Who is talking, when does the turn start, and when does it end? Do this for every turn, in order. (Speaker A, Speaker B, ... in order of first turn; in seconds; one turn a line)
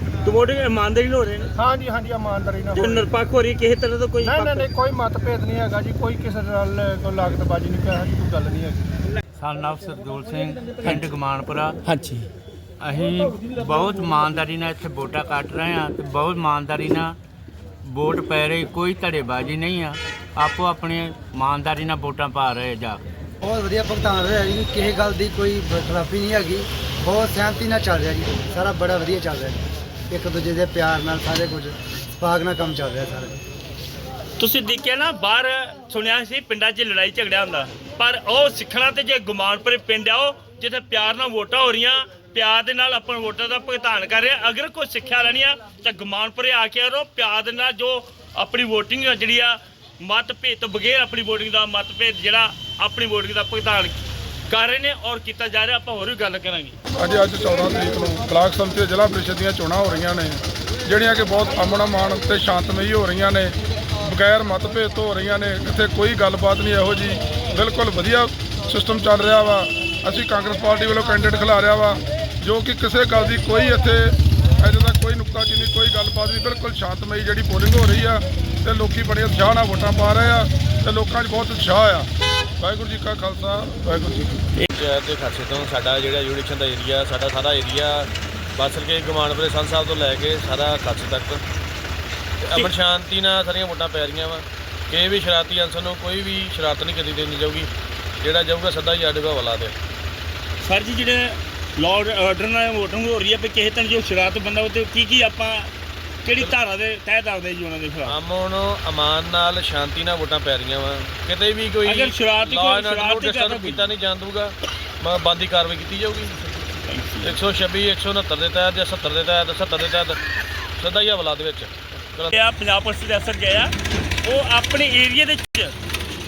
Speaker A: 0.2-1.5
Speaker B: 1.6-3.1
Speaker A: 2.7-4.7
Speaker B: 4.2-8.9
Speaker C: 9.4-11.8
Speaker A: 11.8-12.3
Speaker C: 12.8-17.2
Speaker C: 17.8-23.0
Speaker D: 23.4-33.4
Speaker A: 34.4-54.0
Speaker A: 54.5-56.8
Speaker E: 57.0-82.1
Speaker E: 82.6-84.4
Speaker F: 84.7-91.4
Speaker F: 92.4-97.7
Speaker F: 98.2-99.7
Speaker A: 100.6-105.7
Speaker A: 106.2-108.2
Speaker F: 108.0-116.4
Speaker A: 111.8-113.9
Speaker A: 116.8-117.4
Speaker F: 117.2-120.2
Speaker F: 120.8-122.4
Speaker A: 122.3-123.7
Speaker A: 124.2-125.7